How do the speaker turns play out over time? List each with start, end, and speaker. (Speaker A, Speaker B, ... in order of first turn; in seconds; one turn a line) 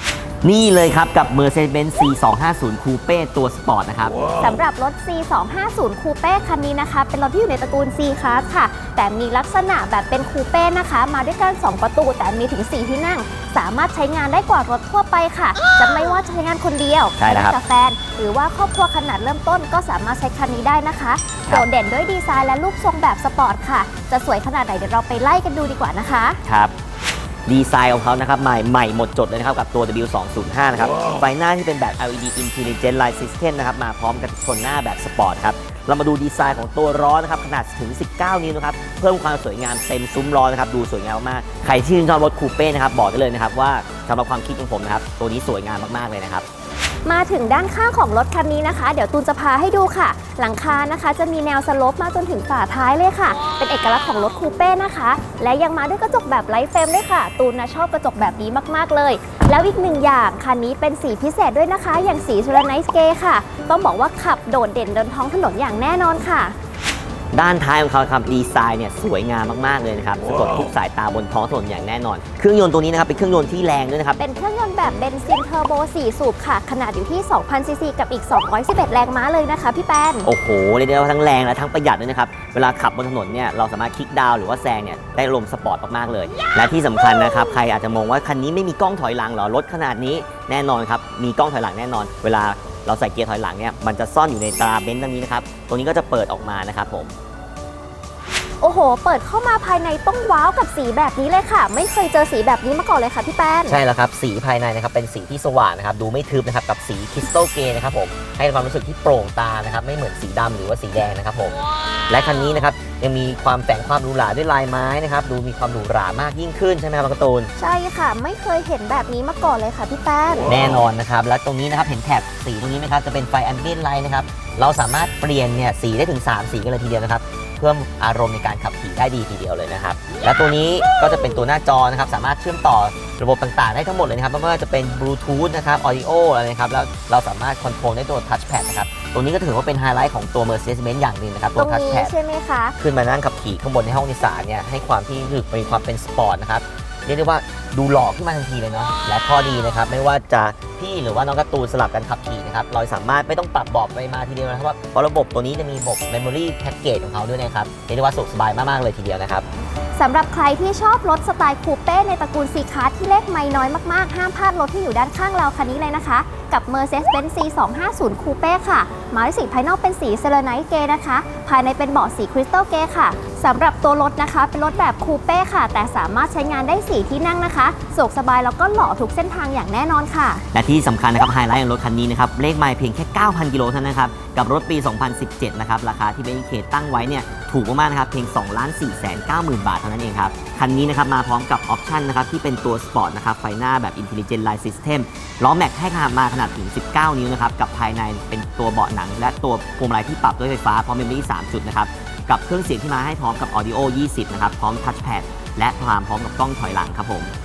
Speaker A: 0.4-4.3
Speaker B: 4.3-26.4
Speaker A: 17.2-17.6
Speaker A: 26.4-26.7
Speaker A: 27.5-46.5
Speaker B: 47.0-66.5
Speaker A: 67.3-74.2
Speaker B: 74.2-80.3
Speaker A: 80.2-97.2
Speaker B: 98.6-103.8
Speaker A: 103.7-117.5
Speaker B: 117.6-120.5
Speaker A: 120.5-142.1
Speaker B: 141.6-142.8
Speaker A: 142.8-159.5
Speaker B: 160.0-180.4
Speaker A: 180.5-207.3